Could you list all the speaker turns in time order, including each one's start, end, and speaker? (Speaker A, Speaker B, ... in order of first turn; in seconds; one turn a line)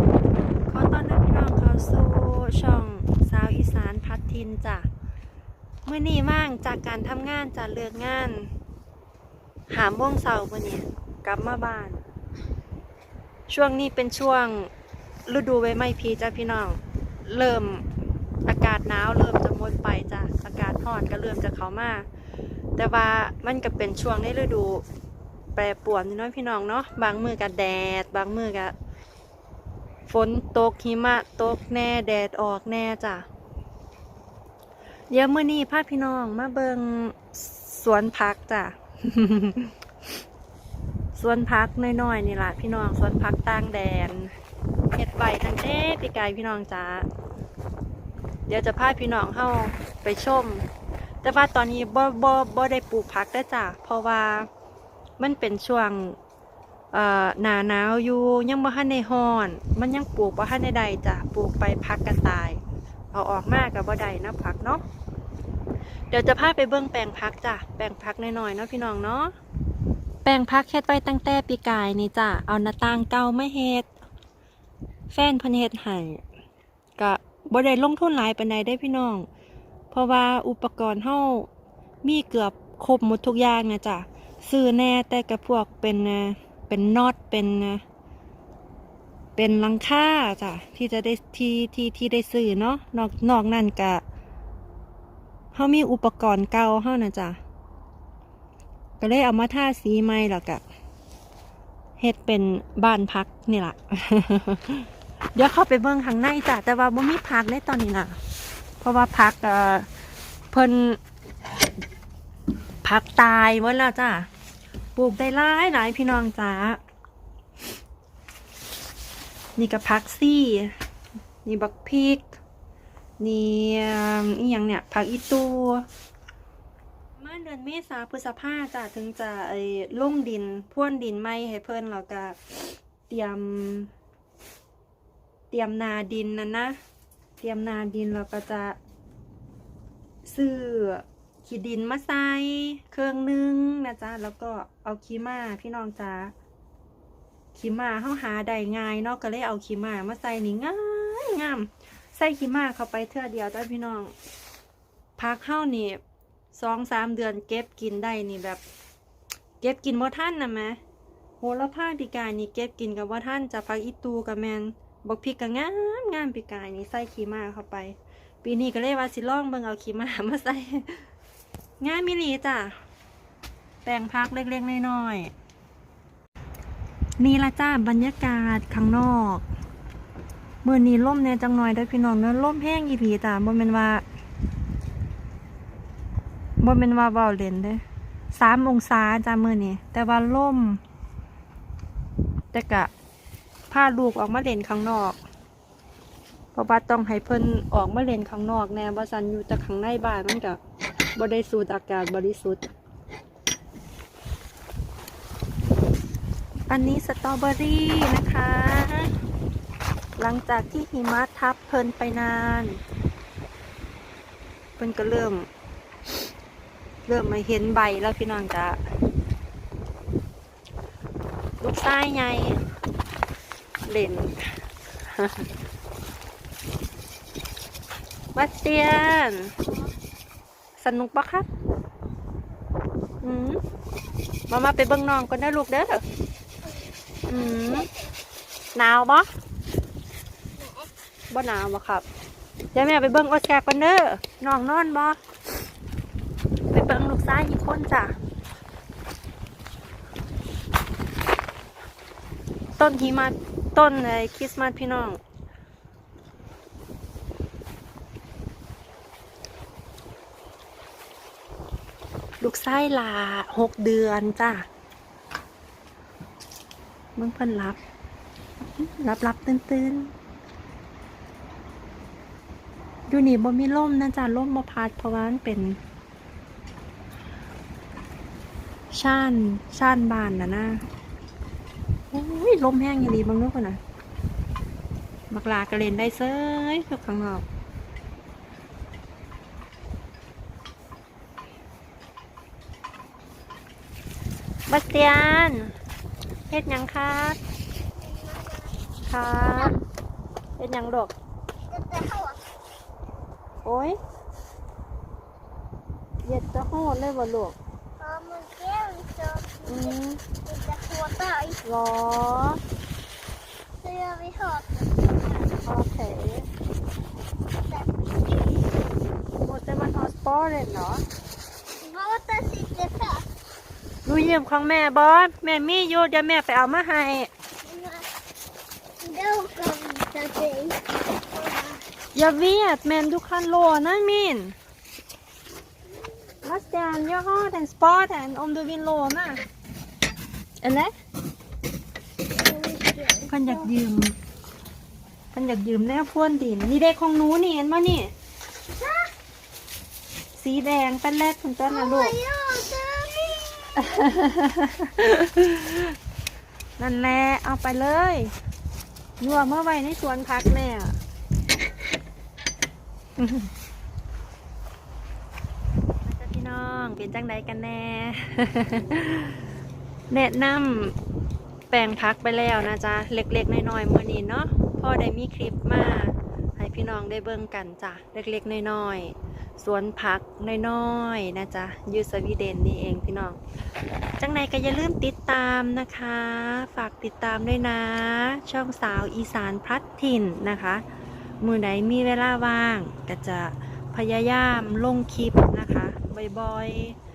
Speaker A: 0.7-4.9
Speaker A: 5.8-8.5
Speaker A: 9.7-12.0
Speaker A: 13.5-14.7
Speaker A: 15.3-17.8
Speaker A: 18.4-22.0
Speaker A: 22.8-24.8
Speaker A: 25.5-28.7
Speaker A: 30.1-33.2
Speaker A: 35.1-39.7
Speaker A: 41.1-44.3
Speaker A: 44.9-47.0
Speaker A: 48.5-50.6
Speaker A: 51.2-54.5
Speaker A: 55.2-56.2
Speaker A: 56.9-62.6
Speaker A: 63.1-64.8
Speaker A: 66.1-69.3
Speaker A: 70.2-73.9
Speaker A: 75.1-76.2
Speaker A: 77.0-79.2
Speaker A: 79.9-81.5
Speaker A: 82.0-87.8
Speaker A: 89.3-94.0
Speaker A: 95.5-97.4
Speaker A: 99.0-100.6
Speaker A: 102.0-108.2
Speaker A: 108.8-109.9
Speaker A: 110.5-111.0
Speaker A: 112.8-114.3
Speaker A: 115.0-116.8
Speaker A: 119.6-120.7
Speaker A: 121.4-122.4
Speaker A: 123.2-125.8
Speaker A: 127.2-132.6
Speaker A: 133.1-133.9
Speaker A: 135.5-136.8
Speaker A: 137.4-138.8
Speaker A: 140.2-146.3
Speaker A: 147.5-154.1
Speaker A: 155.2-156.0
Speaker A: 156.5-158.6
Speaker A: 159.6-160.8
Speaker A: 161.4-171.0
Speaker A: 171.8-172.7
Speaker A: 173.8-175.3
Speaker A: 177.2-179.4
Speaker A: 180.6-184.0
Speaker A: 186.6-187.8
Speaker A: 188.3-190.8
Speaker A: 192.5-192.9
Speaker A: 193.7-195.2
Speaker A: 196.5-200.6
Speaker A: 201.2-202.7
Speaker A: 206.7-209.1
Speaker A: 210.2-212.8
Speaker A: 214.8-215.5
Speaker A: 217.1-218.8
Speaker A: 221.6-222.6
Speaker A: 223.8-224.5
Speaker A: 225.1-225.4
Speaker A: 228.3-229.5
Speaker A: 230.8-231.5
Speaker A: 233.2-233.6
Speaker A: 234.5-236.0
Speaker A: 237.3-237.9
Speaker B: 237.3-238.1
Speaker A: 238.7-239.3
Speaker B: 240.6-240.9
Speaker A: 241.3-242.0
Speaker A: 242.7-245.2
Speaker A: 246.7-248.1
Speaker A: 252.8-255.2
Speaker A: 262.4-264.6
Speaker A: 267.1-267.8
Speaker A: 268.7-270.1
Speaker A: 273.1-275.8
Speaker A: 278.9-280.8
Speaker A: 282.1-283.8
Speaker A: 285.3-287.4
Speaker A: 294.7-295.7
Speaker A: 296.5-297.4
Speaker B: 298.0-298.7
Speaker A: 299.1-299.8
Speaker A: 300.6-301.1
Speaker B: 301.7-302.4
Speaker A: 303.6-304.0
Speaker A: 306.2-307.6
Speaker B: 308.0-311.6
Speaker A: 309.6-310.2
Speaker A: 311.6-312.6
Speaker B: 313.8-315.5
Speaker A: 315.6-316.5
Speaker B: 317.6-317.9
Speaker A: 319.4-321.0
Speaker B: 321.8-323.3
Speaker A: 324.0-327.3
Speaker B: 327.6-328.1
Speaker B: 329.0-331.8
Speaker A: 332.1-334.6
Speaker A: 336.4-339.4
Speaker A: 340.6-340.9
Speaker B: 342.3-343.7
Speaker A: 343.3-344.2
Speaker A: 345.3-348.1
Speaker B: 348.8-349.1
Speaker A: 350.4-352.1
Speaker B: 351.7-354.1
Speaker A: 353.8-355.9
Speaker A: 356.8-358.3
Speaker A: 359.2-361.0
Speaker A: 363.2-363.5
Speaker A: 366.0-369.4
Speaker A: 370.1-370.9
Speaker A: 371.7-383.4
Speaker A: 384.2-390.8
Speaker A: 391.4-397.0